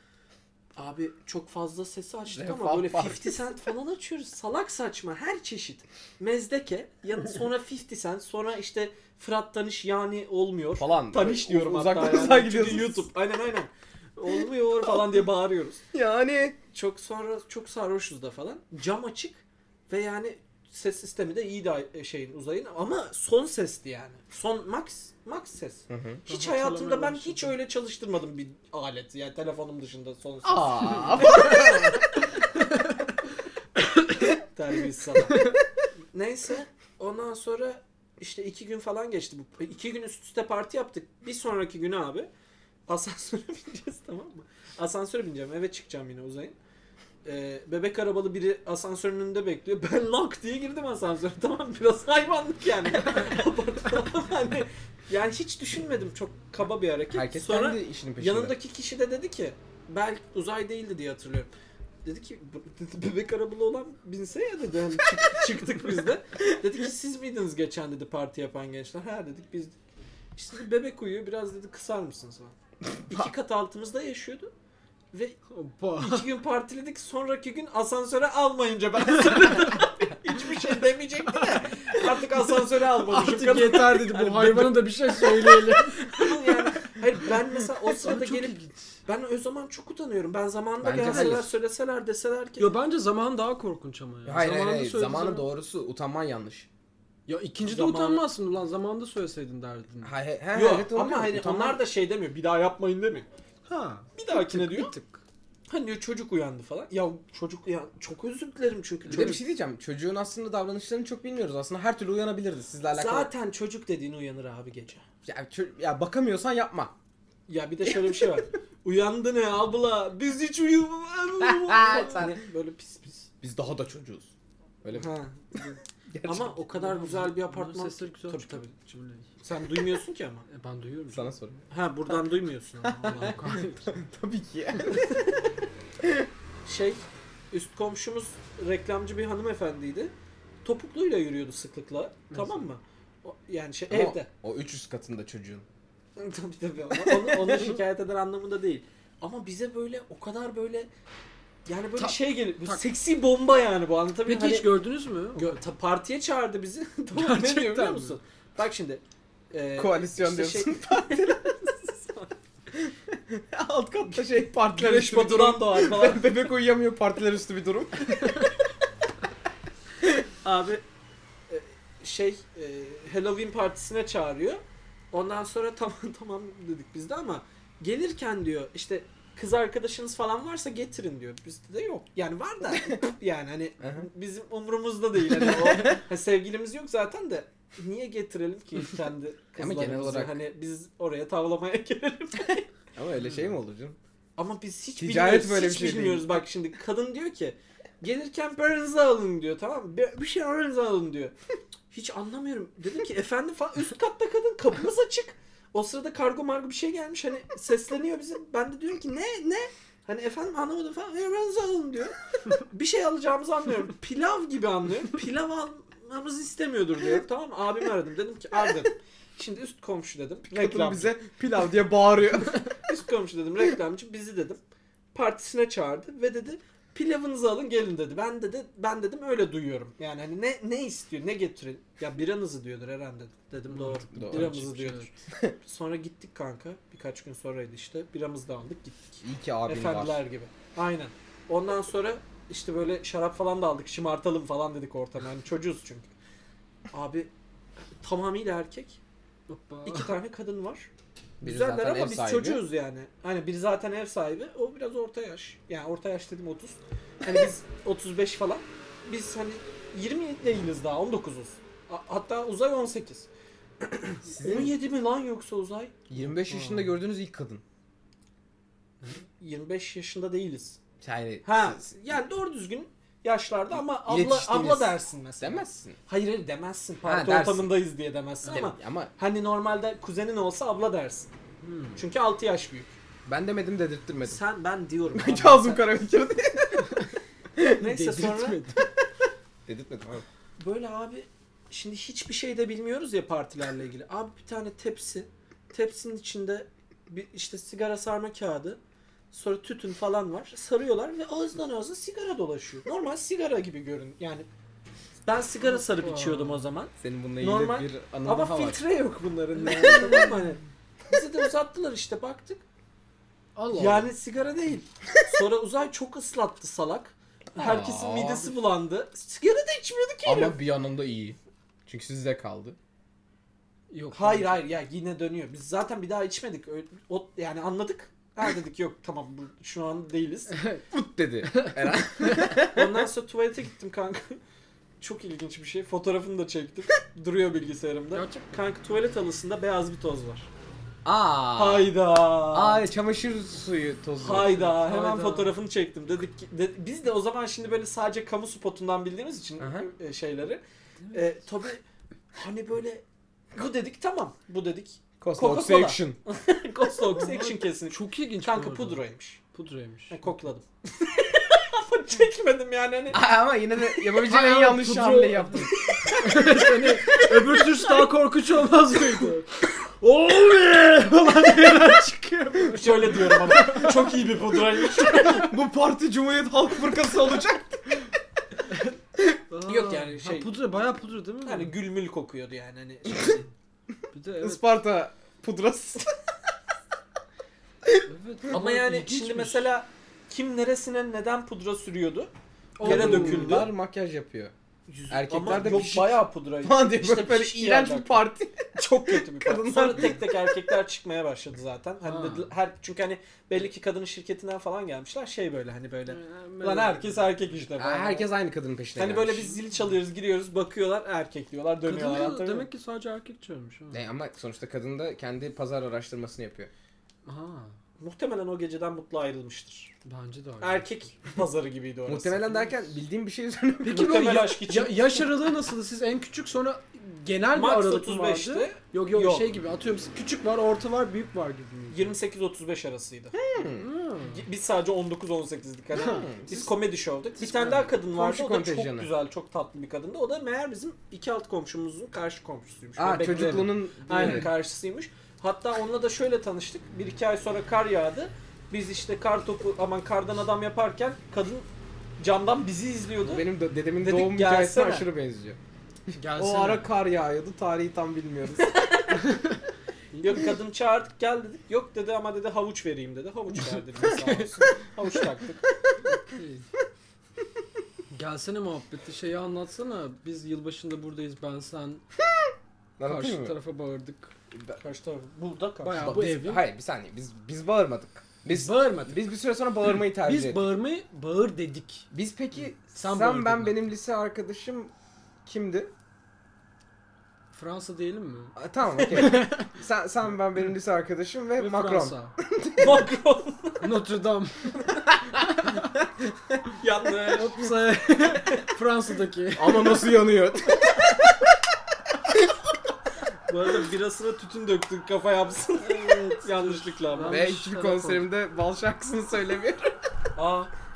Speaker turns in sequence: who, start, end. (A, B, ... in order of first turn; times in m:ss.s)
0:00.8-0:15.8 A
0:02.3-0:03.4 B
0:10.8-0:13.1 B
0:15.9-0:16.6 B
0:16.7-0:32.0 A
0:25.9-0:26.2 B
0:26.3-0:27.5 C
0:30.4-0:32.0 B
0:31.1-0:31.7 C
0:33.8-0:34.3 C
0:34.2-0:35.5 A
0:36.1-0:42.3 A
0:42.9-0:46.6 A
0:47.2-1:01.5 A
0:57.1-0:58.5 B
1:02.0-1:09.8 A
1:10.4-1:12.5 A
1:13.1-1:14.5 A
1:15.1-1:15.4 A
1:15.5-1:16.3 C
1:16.0-1:32.7 A
1:22.7-1:26.7 C
1:27.9-1:28.8 C
1:30.8-1:31.5 B
1:30.9-1:31.4 C
1:32.6-1:35.5 C
1:34.2-1:36.7 B
1:37.3-1:40.1 C
1:37.6-1:38.2 A
1:40.0-1:41.8 B
1:40.5-1:43.3 A
1:43.7-1:45.2 C
1:44.1-1:44.9 A
1:45.7-1:49.4 A
1:49.1-1:53.3 B
1:52.9-1:55.0 A
1:55.2-1:56.9 B
1:57.5-2:03.3 A
1:57.9-1:58.3 B
2:01.4-2:02.4 B
2:03.4-2:04.3 B
2:04.8-2:06.6 B
2:04.9-2:08.7 A
2:06.7-2:09.3 C
2:09.4-2:10.4 A
2:10.5-2:11.3 C
2:11.1-2:11.6 B
2:11.7-2:13.4 A
2:12.8-2:15.2 B
2:13.0-2:13.9 C
2:16.0-2:16.3 B
2:16.6-2:20.1 A
2:20.6-2:24.3 A
2:22.3-2:22.7 C
2:23.9-2:25.6 B
2:26.2-2:30.9 A
2:27.0-2:27.6 B
2:31.6-2:34.7 A
2:32.0-2:32.8 C
2:34.3-2:35.6 C
2:35.3-2:42.3 A
2:37.1-2:38.2 C
2:39.8-2:41.5 B
2:42.7-2:48.3 B
2:44.7-2:46.3 A
2:50.4-2:50.8 A
2:51.5-2:54.6 A
2:55.1-3:12.7 A
3:03.8-3:04.1 B
3:05.3-3:06.0 B
3:09.6-3:10.4 B
3:12.9-3:14.0 B
3:14.4-3:21.3 A
3:15.0-3:16.4 B
3:21.9-3:41.2 A
3:40.5-3:42.7 B
3:42.8-3:44.6 A
3:45.1-3:55.1 A
3:53.7-3:55.1 C
3:54.1-3:54.6 B
3:55.3-3:55.6 B
3:55.6-4:06.1 A
3:59.2-4:00.2 B
4:06.9-4:07.3 A
4:08.0-4:09.0 A
4:09.5-4:10.1 C
4:09.8-4:10.9 A
4:11.4-4:12.6 B
4:11.4-4:23.3 A
4:23.8-4:26.0 A
4:24.3-4:24.7 B
4:26.1-4:27.6 B
4:26.4-4:26.9 C
4:29.4-4:30.8 A
4:31.0-4:31.9 B
4:31.4-4:41.3 A
4:33.8-4:36.0 B
4:37.0-4:37.8 B
4:38.5-4:39.1 B
4:41.6-4:42.0 C
4:41.9-4:43.0 A
4:43.2-4:44.4 B
4:44.2-4:45.9 A
4:45.1-4:47.0 B
4:47.7-4:48.9 C
4:47.8-4:48.6 A
4:49.7-4:50.2 B
4:50.6-4:58.8 A
4:59.3-5:04.5 A
5:05.2-5:12.6 A
5:05.6-5:06.6 C
5:07.0-5:08.8 B
5:09.7-5:10.4 C
5:13.6-5:14.1 C
5:13.7-5:20.6 A
5:17.6-5:18.5 B
5:20.2-5:22.8 B
5:23.9-5:24.6 C
5:24.1-5:30.6 A
5:30.6-5:30.8 C
5:30.9-5:33.1 B
5:31.4-5:32.4 C
5:32.7-5:34.4 A
5:35.0-5:40.5 A
5:38.1-5:38.5 C
5:41.0-5:42.0 B
5:41.5-5:42.8 A
5:42.5-5:44.7 B
5:44.2-5:59.4 A
5:44.6-5:45.5 C
5:49.6-5:49.9 B
5:55.2-5:56.2 B
5:57.1-6:00.2 C
6:00.1-6:03.2 A
6:03.1-6:05.9 B
6:04.1-6:14.2 C
6:05.8-6:08.1 A
6:12.7-6:15.5 A
6:15.0-6:18.1 B
6:19.5-6:21.7 C
6:19.6-6:20.5 A
6:21.4-6:23.5 A
6:24.1-6:24.6 C
6:24.4-6:26.1 B
6:28.0-6:29.7 C
6:28.5-6:33.7 A
6:32.8-6:33.7 C
6:32.8-6:34.5 B
6:34.9-6:38.2 A
6:35.1-6:40.6 B
6:38.7-6:48.3 A
6:42.0-6:42.5 C
6:46.1-6:47.4 C
6:47.8-6:49.6 B
6:49.0-6:52.7 A
6:51.8-6:54.0 C
6:53.9-6:56.7 B
6:57.2-6:57.8 C
6:58.0-6:59.9 A
7:00.0-7:01.0 C
7:00.6-7:02.7 A
7:02.1-7:04.4 B
7:03.8-7:12.1 C
7:03.8-7:05.3 A
7:07.5-7:09.5 A
7:11.9-7:13.4 A
7:13.3-7:13.9 B
7:13.6-7:14.4 C
7:14.3-7:31.7 A
7:16.0-7:16.7 B
7:17.4-7:19.1 B
7:17.5-7:17.8 C
7:23.0-7:24.5 B
7:24.2-7:24.5 C
7:32.2-7:33.4 A
7:33.2-7:35.6 B
7:34.0-7:35.1 A
7:36.1-7:36.9 C
7:36.3-7:38.8 B
7:38.6-7:39.2 A
7:39.1-7:39.6 C
7:40.1-7:40.5 C
7:40.2-7:45.6 A
7:44.0-7:44.7 C
7:46.0-7:46.6 C
7:48.1-7:52.0 C
7:53.0-7:53.5 B
7:53.0-7:54.3 C
7:54.5-7:54.8 B
7:54.8-7:56.1 A
7:55.8-7:56.6 C
7:56.0-8:00.6 B
7:58.5-7:59.3 C
7:59.9-8:02.1 C
8:02.1-8:04.9 B
8:02.7-8:03.8 C
8:05.4-8:05.9 B
8:07.5-8:09.7 C
8:08.6-8:13.1 B
8:11.6-8:12.3 C
8:12.8-8:13.9 A
8:13.8-8:15.9 C
8:16.8-8:17.6 A
8:17.3-8:20.2 C
8:19.5-8:21.4 B
8:23.5-8:27.4 A
8:25.8-8:28.2 C
8:27.2-8:30.0 B
8:30.4-8:30.7 A